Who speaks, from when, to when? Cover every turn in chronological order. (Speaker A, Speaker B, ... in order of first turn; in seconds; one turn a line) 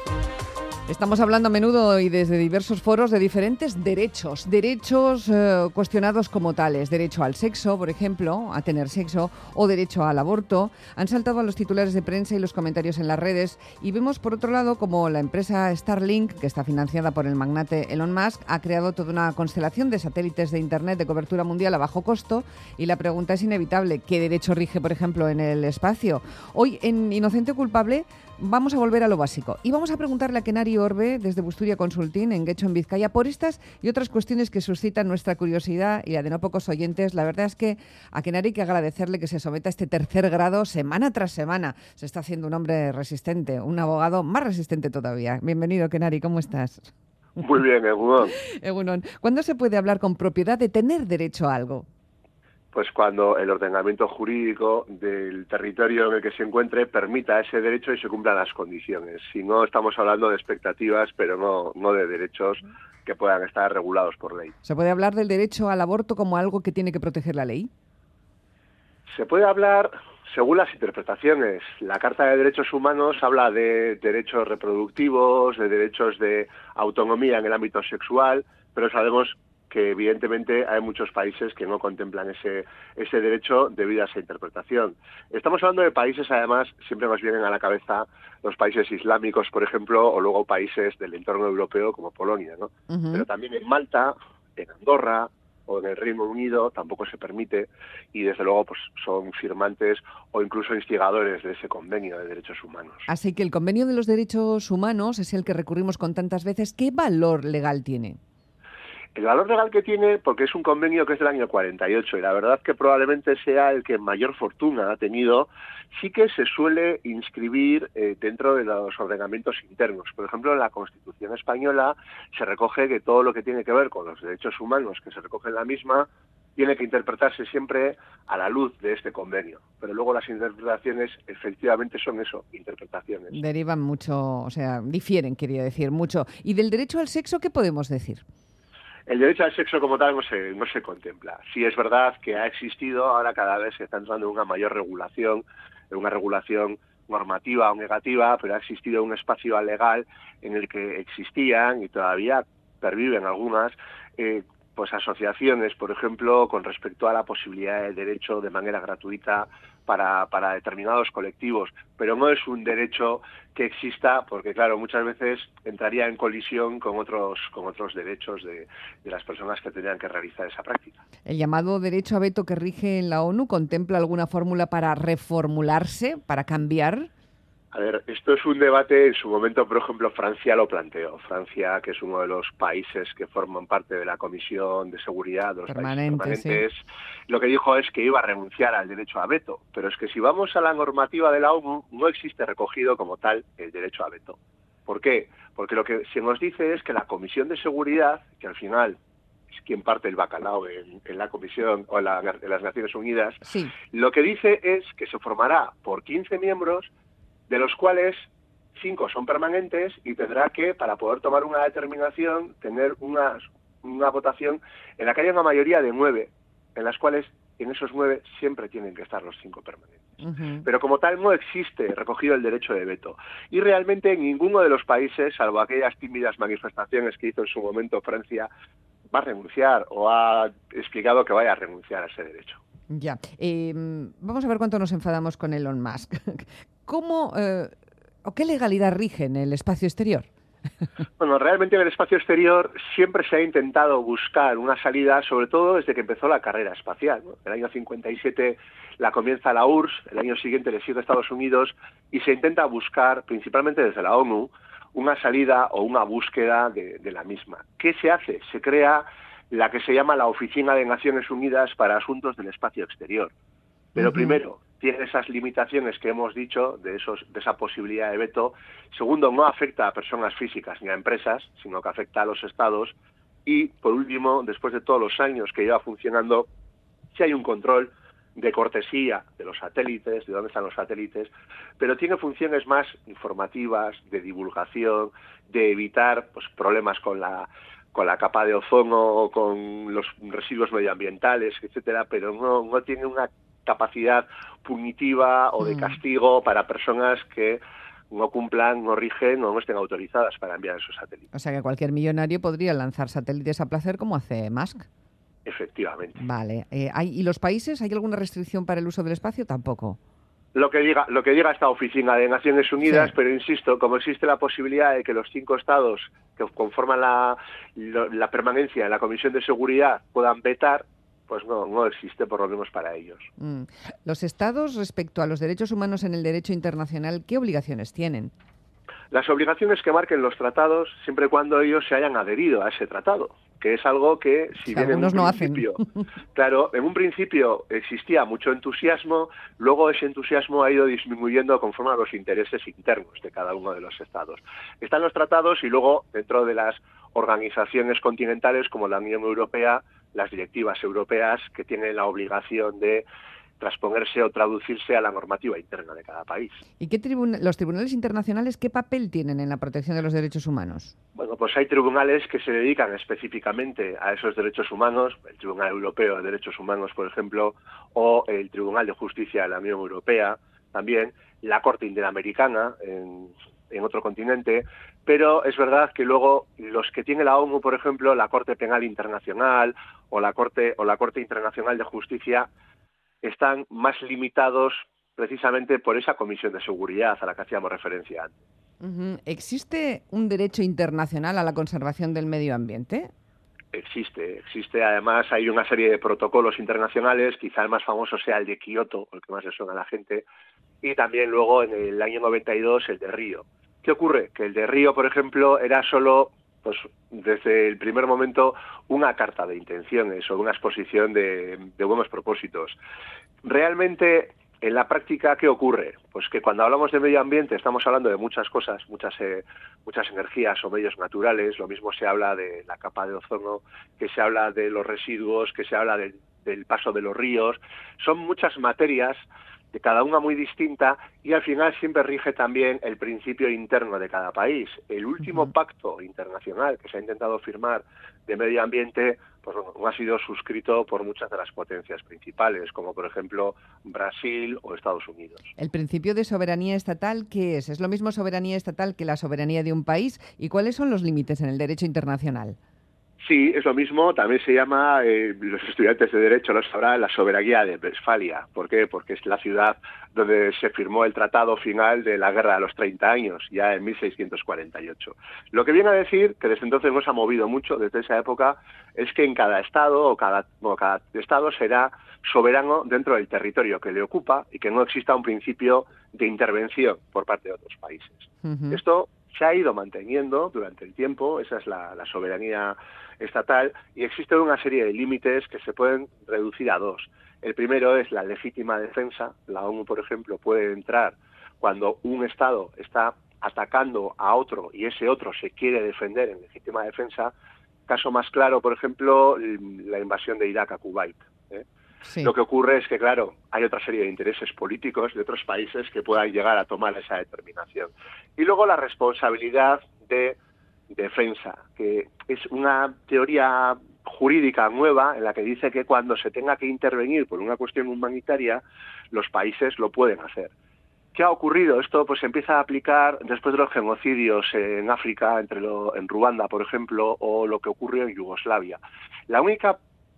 Speaker A: 0.9-46.9
Speaker B: 47.4-48.4
Speaker A: 48.4-51.9
Speaker B: 52.7-64.5
Speaker A: 64.7-67.7
Speaker B: 69.1-103.1
Speaker A: 92.9-93.3
Speaker A: 103.1-108.2
Speaker B: 109.2-133.4
Speaker A: 133.3-138.2
Speaker B: 139.1-171.0
Speaker A: 171.3-177.1
Speaker B: 177.7-199.0
Speaker A: 185.7-186.7
Speaker B: 199.5-206.9
Speaker A: 203.4-203.7
Speaker B: 207.5-228.5
Speaker A: 220.2-220.7
Speaker B: 229.1-232.6
Speaker A: 232.9-240.3
Speaker B: 241.2-263.3
Speaker A: 264.0-264.4
Speaker B: 264.0-272.9
Speaker B: 273.5-276.5
Speaker B: 277.1-301.3
Speaker A: 295.6-295.9
Speaker A: 301.3-304.9
Speaker B: 305.4-306.2
Speaker A: 306.2-310.0
Speaker B: 310.5-323.3
Speaker A: 312.8-313.1
Speaker A: 323.4-328.3
Speaker B: 329.1-335.8
Speaker A: 334.7-335.7
Speaker B: 336.3-353.1
Speaker B: 353.6-356.6
Speaker A: 356.8-360.9
Speaker B: 361.1-382.5
Speaker B: 383.2-388.4
Speaker A: 388.8-393.1
Speaker B: 393.7-400.3
Speaker B: 400.8-412.8
Speaker B: 413.4-445.5
Speaker A: 445.6-452.6
Speaker B: 453.2-497.3
Speaker A: 478.4-478.8
Speaker B: 497.9-501.6
Speaker A: 502.0-502.3
Speaker B: 502.2-510.4
Speaker B: 510.9-520.5
Speaker B: 521.1-529.8